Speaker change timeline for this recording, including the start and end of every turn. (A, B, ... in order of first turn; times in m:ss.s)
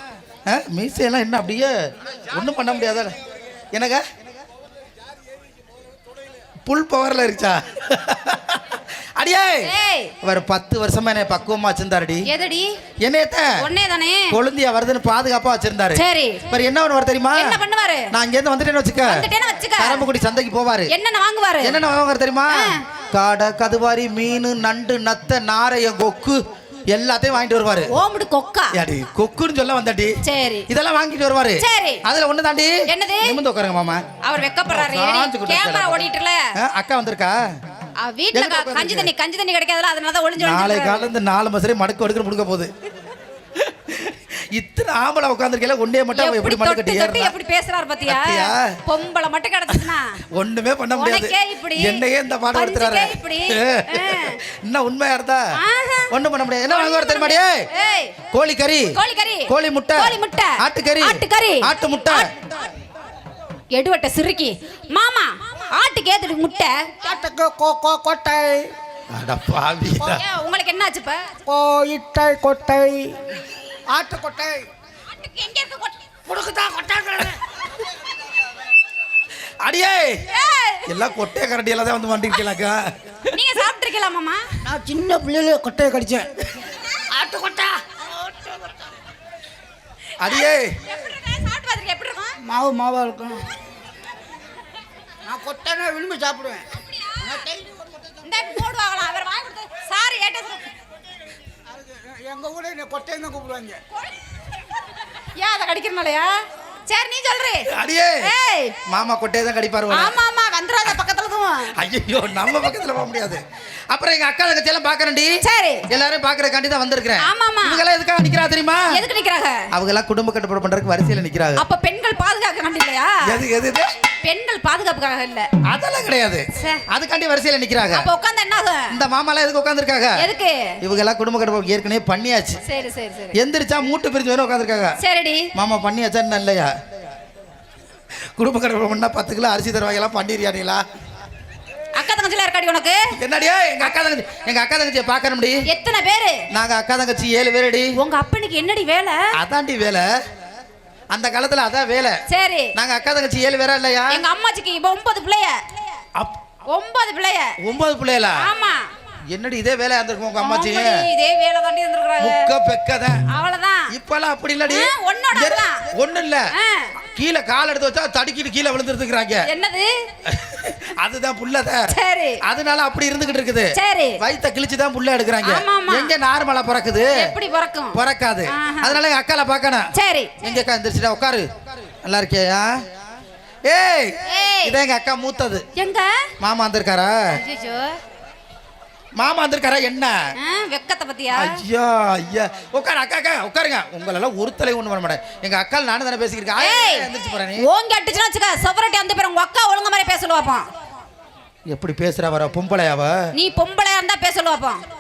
0:00.5-0:03.2 A
0:03.7-0:04.0 A
0:06.7-0:09.7 A
0:09.6-0:10.1 B
0:10.2-0:12.3 A
0:12.3-0:12.7 B
0:13.0-0:13.6 A
0:13.6-0:14.4 B
0:14.3-0:17.6 A
0:16.0-0:16.5 B
0:17.4-0:18.1 B
0:18.1-0:19.3 A
0:19.1-0:20.0 B
0:19.8-0:20.9 A
0:20.9-0:21.8 B
0:21.6-0:27.9 A
0:22.5-0:22.8 B
0:27.9-0:28.8 B
0:28.7-0:30.2 A
0:30.2-0:30.7 B
0:30.7-0:34.0 A
0:31.6-0:32.0 B
0:32.9-0:33.4 B
0:34.2-0:36.4 B
0:34.7-0:36.0 A
0:36.6-0:37.6 A
0:38.0-0:41.0 B
0:38.3-0:39.1 A
0:40.4-0:42.7 A
0:43.6-0:47.3 A
0:46.1-0:50.2 B
0:48.1-0:48.8 A
0:50.4-0:55.5 A
0:51.0-0:54.4 B
0:55.6-0:56.1 B
0:56.1-0:57.6 A
0:56.7-0:58.2 B
0:58.3-0:59.0 A
0:58.9-1:02.3 B
0:59.5-1:02.3 A
1:03.7-1:06.9 B
1:07.0-1:08.7 C
1:09.1-1:10.2 A
1:10.1-1:11.3 B
1:11.5-1:13.1 C
1:13.9-1:14.7 C
1:15.1-1:16.0 B
1:16.3-1:17.4 C
1:19.6-1:20.2 A
1:20.3-1:21.0 B
1:20.9-1:22.9 A
1:23.3-1:24.4 B
1:24.6-1:26.3 C
1:27.1-1:28.8 C
1:30.2-1:30.7 A
1:30.3-1:32.4 B
1:32.4-1:33.4 C
1:35.2-1:36.7 C
1:37.2-1:37.9 C
1:38.2-1:40.7 B
1:41.8-1:43.8 C
1:45.4-1:46.3 B
1:46.9-1:47.7 B
1:47.7-1:48.3 A
1:48.2-1:48.8 B
1:48.9-1:50.2 A
1:49.9-1:51.7 B
1:51.8-1:55.4 A
1:55.4-1:55.9 B
1:55.9-1:59.0 A
1:57.2-1:57.8 B
1:58.9-1:59.7 B
1:59.7-2:01.6 A
2:01.6-2:03.2 B
2:03.3-2:03.9 A
2:04.2-2:05.5 B
2:05.7-2:08.1 A
2:06.6-2:06.8 B
2:07.9-2:09.0 B
2:08.9-2:10.2 A
2:10.2-2:10.8 B
2:10.8-2:12.6 A
2:12.7-2:13.4 B
2:13.4-2:15.0 A
2:15.0-2:15.5 B
2:15.6-2:16.7 A
2:18.4-2:20.8 A
2:22.0-2:23.0 B
2:23.2-2:25.6 A
2:25.7-2:26.4 B
2:26.5-2:27.9 A
2:28.0-2:29.2 B
2:29.4-2:30.1 A
2:31.1-2:32.2 A
2:32.3-2:32.7 B
2:32.8-2:34.2 A
2:34.1-2:35.6 B
2:36.7-2:37.6 B
2:37.6-2:38.5 A
2:38.4-2:38.9 B
2:39.3-2:41.0 A
2:40.4-2:42.4 B
2:42.2-2:43.2 A
2:43.3-2:43.9 B
2:43.9-2:46.5 A
2:44.7-2:45.8 B
2:46.5-2:46.9 B
2:47.1-2:49.5 A
2:49.5-2:49.9 B
2:50.3-2:57.3 A
2:51.9-2:52.4 B
2:53.8-2:54.2 B
2:55.4-2:56.1 B
2:57.1-2:59.0 B
2:57.9-3:01.5 A
2:59.9-3:00.6 B
3:02.0-3:02.8 A
3:03.7-3:05.6 A
3:04.3-3:04.8 B
3:05.8-3:06.2 B
3:06.4-3:07.4 A
3:07.3-3:08.0 B
3:09.2-3:10.3 A
3:10.4-3:11.6 B
3:11.4-3:17.6 A
3:16.6-3:20.7 B
3:21.7-3:23.3 A
3:23.4-3:24.8 B